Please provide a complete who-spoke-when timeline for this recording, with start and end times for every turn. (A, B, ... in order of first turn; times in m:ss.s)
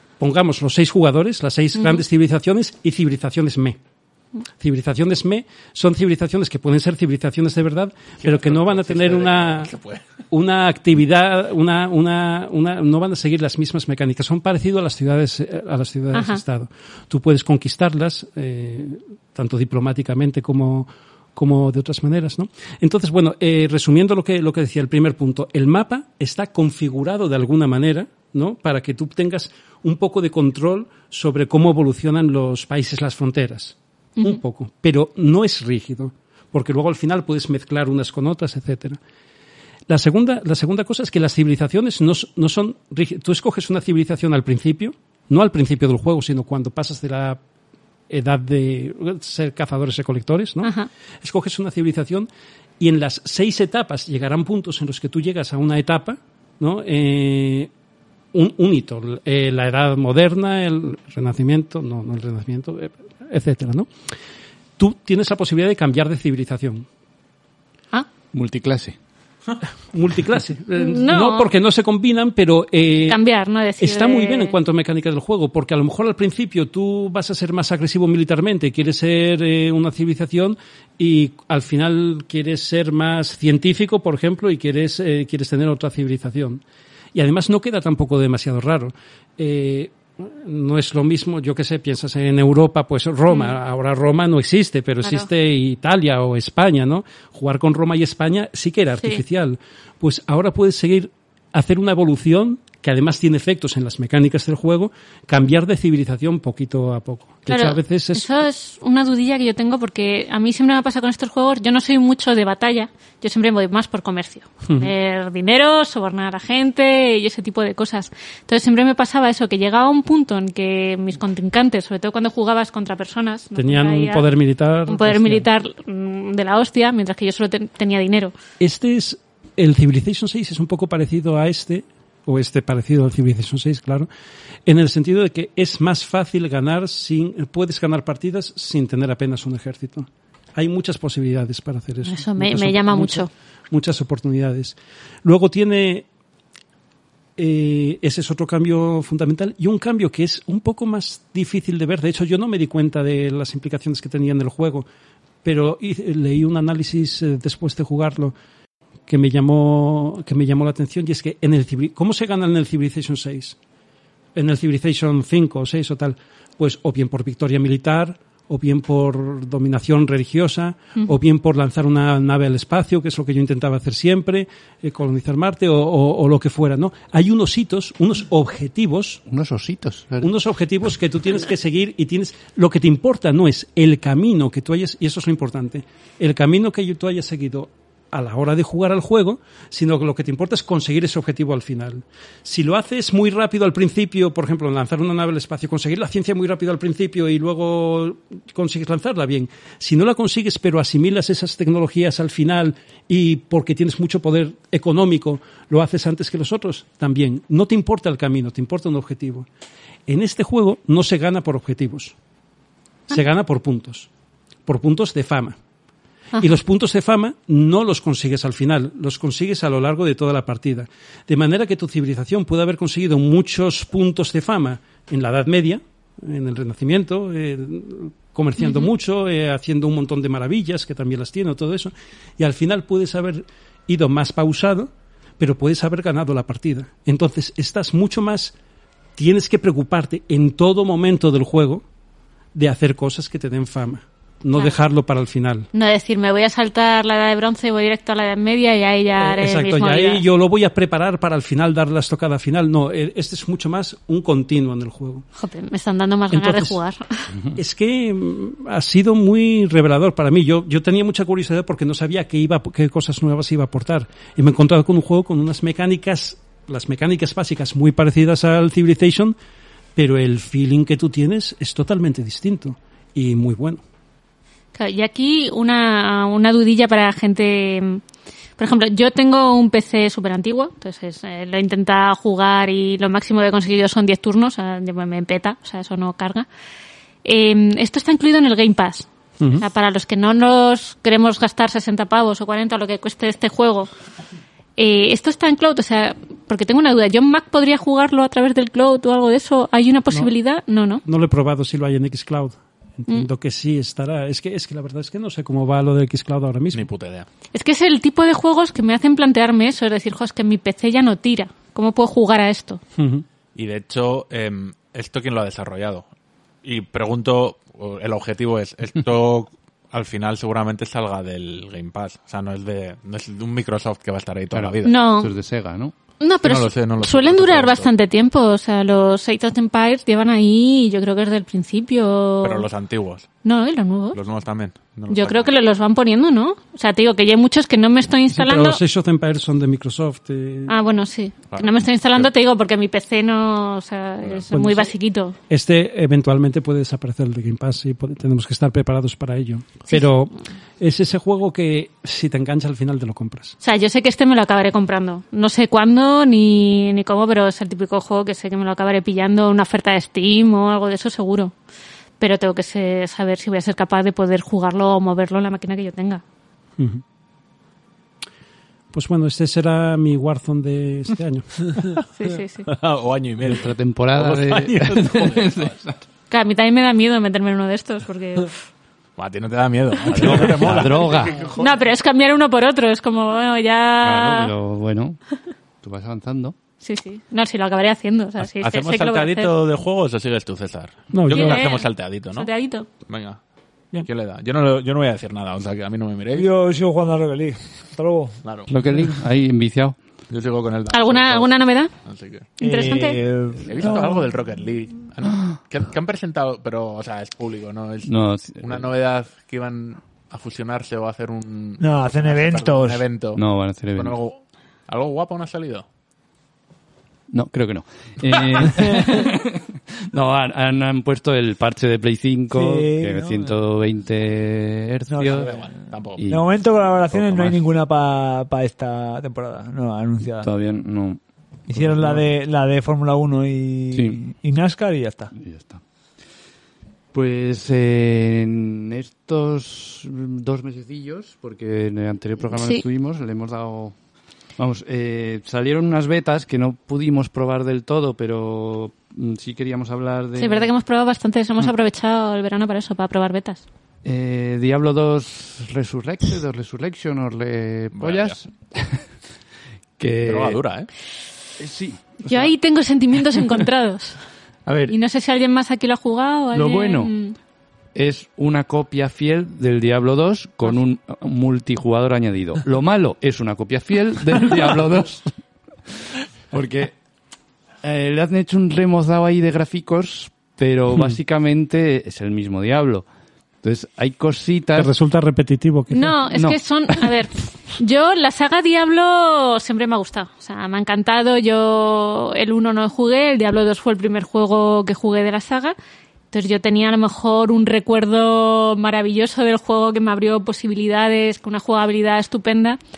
0:00.2-0:03.8 A
0:01.8-0:02.0 B
0:04.6-0:09.7 A
0:08.2-0:10.0 C
0:10.3-0:39.0 A
0:16.1-0:16.4 B
0:39.9-0:47.4 A
0:48.1-0:52.3 A
0:50.6-0:50.9 B
0:52.8-0:57.7 A
0:58.3-1:03.9 A
1:04.8-1:06.9 A
1:08.3-1:09.0 D
1:09.9-1:13.2 A
1:10.8-1:11.5 B
1:13.1-1:14.6 B
1:13.8-1:26.6 A
1:27.1-1:48.3 A
1:33.3-1:33.6 B
1:35.0-1:35.3 B
1:47.5-2:04.3 B
1:54.7-1:54.9 A
2:03.6-2:05.5 A
2:04.9-2:08.3 B
2:08.6-2:14.1 A
2:14.7-2:26.1 A
2:22.0-2:23.3 B
2:27.4-2:34.9 A
2:35.4-2:38.3 A
2:39.1-2:43.6 A
2:44.4-2:59.2 A
2:59.3-3:00.3 D
3:00.2-3:29.5 A
3:30.1-3:32.2 A
3:33.1-3:34.1 A
3:34.7-3:35.6 A
3:36.4-3:58.5 A
3:48.6-3:48.9 B
3:59.2-4:01.8 A
4:02.6-4:05.7 A
4:05.7-4:10.2 B
4:09.2-4:15.3 A
4:15.4-4:17.3 B
4:16.3-4:16.8 A
4:17.6-4:29.4 A
4:30.0-4:33.8 A
4:34.8-4:38.0 B
4:38.6-4:46.5 B
4:47.2-4:53.9 B
4:54.8-5:01.0 B
5:01.0-5:06.9 A
5:06.7-5:07.3 C
5:07.5-5:12.8 B
5:13.0-5:13.2 A
5:13.6-5:16.1 C
5:16.6-5:24.9 C
5:24.5-5:25.9 D
5:24.8-5:25.3 B
5:26.2-5:32.7 B
5:26.4-5:27.9 C
5:32.4-5:33.3 C
5:33.4-5:34.2 B
5:34.1-5:35.5 C
5:35.1-5:38.8 B
5:38.3-5:40.7 A
5:40.7-5:45.4 B
5:41.5-5:42.3 C
5:44.5-5:44.9 A
5:45.5-5:53.6 A
5:53.6-6:01.5 B
6:02.2-6:06.2 B
6:06.8-6:07.0 A
6:08.9-6:12.0 A
6:12.2-6:12.7 B
6:12.7-6:15.7 C
6:13.4-6:16.0 D
6:16.3-6:18.5 B
6:19.2-6:21.4 C
6:20.1-6:20.4 B
6:20.1-6:21.5 D
6:21.5-6:24.5 B
6:24.0-6:25.2 D
6:25.8-6:26.6 D
6:26.8-6:29.5 B
6:28.4-6:32.5 C
6:31.1-6:31.6 A
6:31.3-6:32.9 B
6:33.1-6:33.4 C
6:34.1-6:36.5 C
6:36.3-6:38.4 E
6:38.4-6:38.7 C
6:38.7-6:40.0 D
6:40.3-6:41.5 C
6:40.9-6:41.9 B
6:42.0-6:42.5 C
6:42.6-6:43.2 B
6:42.6-6:44.3 E
6:43.6-6:53.4 C
6:48.0-6:48.9 D
6:51.8-6:53.0 E
6:53.4-6:54.2 D
6:54.0-6:55.8 C
6:57.3-7:05.5 D
7:02.5-7:03.6 E
7:05.1-7:05.6 E
7:05.3-7:06.2 C
7:06.2-7:06.5 D
7:06.3-7:10.5 E
7:07.2-7:07.5 D
7:10.4-7:11.2 D
7:11.7-7:15.3 E
7:11.7-7:12.2 D
7:13.9-7:14.2 D
7:15.4-7:15.8 D
7:17.1-7:24.0 D
7:22.5-7:22.8 B
7:24.6-7:30.7 D
7:30.4-7:33.6 B
7:34.0-7:39.0 D
7:37.9-7:38.4 C
7:40.0-7:40.6 D
7:40.2-7:40.9 C
7:41.6-7:42.5 D
7:42.3-7:44.2 B
7:44.7-7:45.0 D
7:44.9-7:47.4 B
7:46.5-7:47.1 D
7:48.0-7:55.2 D
7:56.5-7:57.0 D
7:57.8-8:03.1 D
8:03.6-8:04.9 D
8:04.8-8:06.1 A
8:05.9-8:15.8 B
8:06.3-8:06.6 D
8:16.3-8:22.8 B